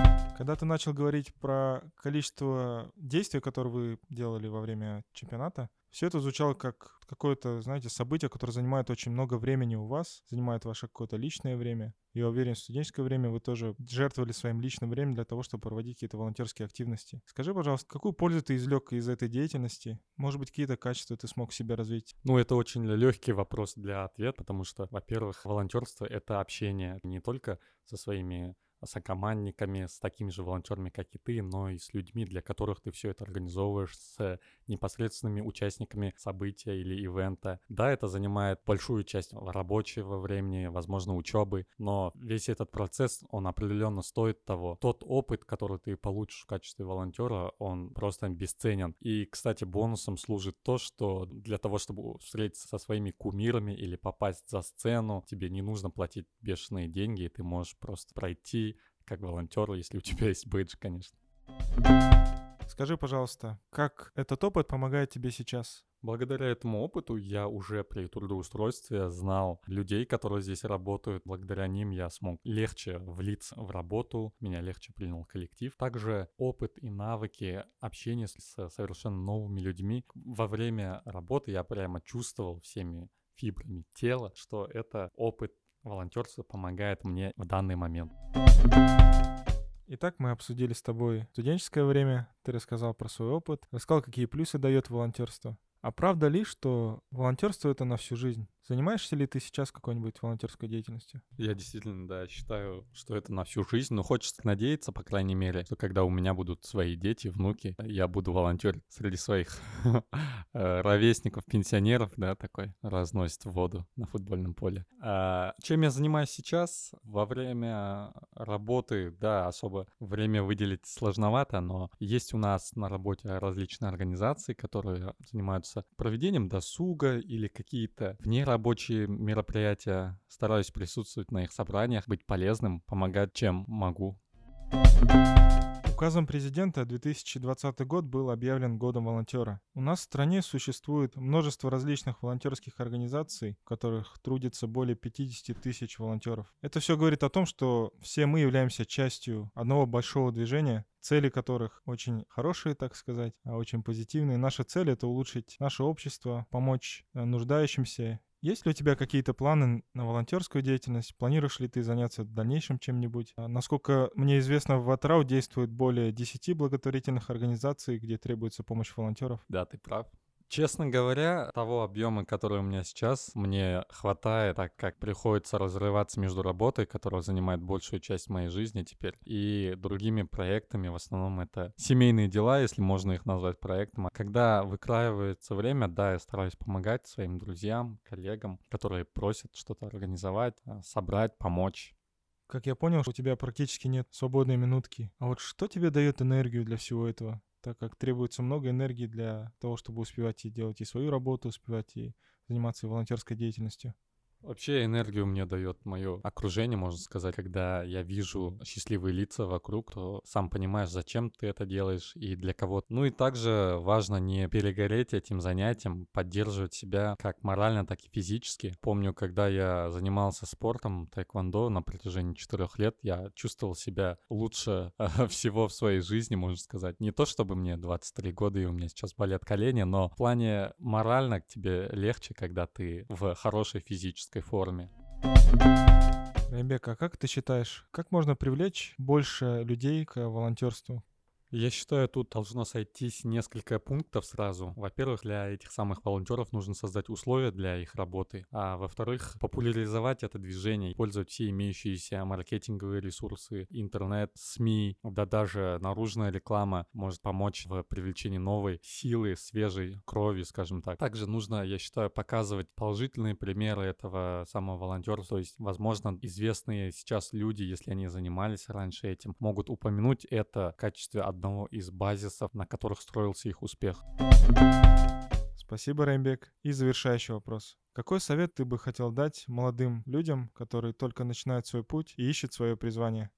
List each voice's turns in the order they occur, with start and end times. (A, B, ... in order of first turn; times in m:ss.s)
0:00.3-0:22.1 A
0:22.2-1:01.1 B
1:02.7-1:05.8 A
1:06.0-1:28.1 B
1:29.9-1:41.2 A
1:41.4-2:14.2 B
2:15.8-2:49.4 A
2:49.5-3:11.9 B
3:12.5-3:23.9 A
3:24.4-3:54.9 B
3:56.5-4:01.0 A
4:01.5-4:34.0 B
4:35.6-4:43.3 A